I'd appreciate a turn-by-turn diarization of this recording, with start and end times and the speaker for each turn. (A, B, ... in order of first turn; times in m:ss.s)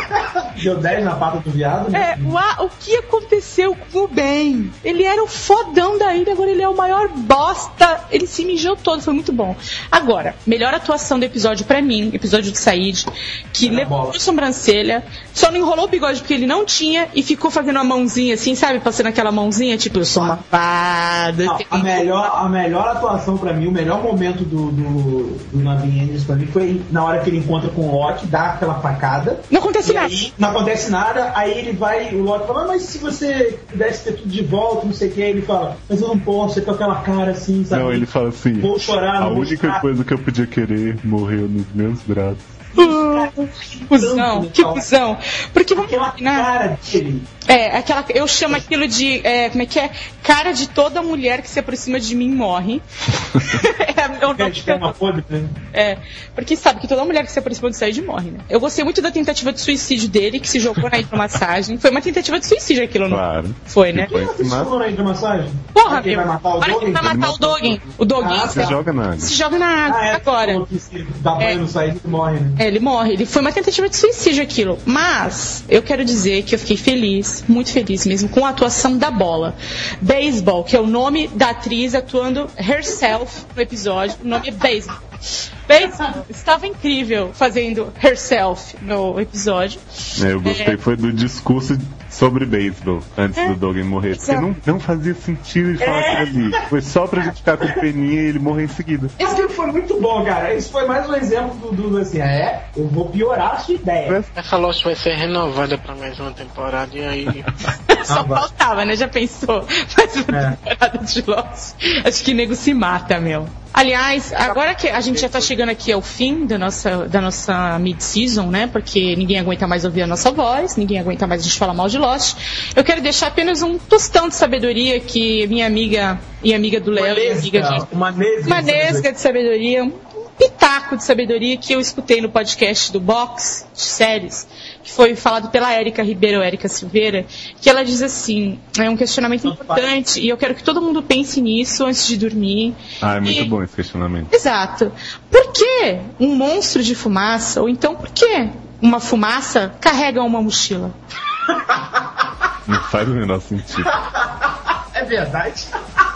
0:00.2-0:02.4 A
0:01.9-0:22.1 B
0:13.6-0:14.2 A
0:20.1-0:20.4 A
0:21.4-0:38.1 A
0:29.5-0:30.3 B
0:37.7-0:42.5 C
0:38.6-0:39.8 A
0:42.8-0:44.9 A
0:42.8-0:46.5 B
0:45.8-0:47.3 A
0:47.5-0:52.8 B
0:53.5-0:54.9 B
0:54.4-0:55.6 A
0:55.7-1:04.1 B
1:03.1-1:04.7 C
1:04.1-1:07.2 A
1:05.7-1:10.6 B
1:07.0-1:07.9 C
1:08.2-1:08.8 A
1:08.4-1:09.3 C
1:09.9-1:12.6 A
1:12.6-1:25.0 B
1:25.7-1:29.8 B
1:30.2-1:39.2 C
1:30.4-1:30.8 B
1:34.2-1:34.4 B
1:35.8-1:36.6 A
1:39.2-1:44.2 A
1:44.4-1:47.5 D
1:47.9-2:07.9 B
1:48.1-1:48.5 A
1:50.3-1:50.6 A
2:07.0-2:09.1 A
2:08.5-2:23.5 B
2:19.4-2:19.9 A
2:23.0-2:24.3 C
2:24.3-2:30.9 B
2:32.7-2:33.9 C
2:34.9-2:35.7 A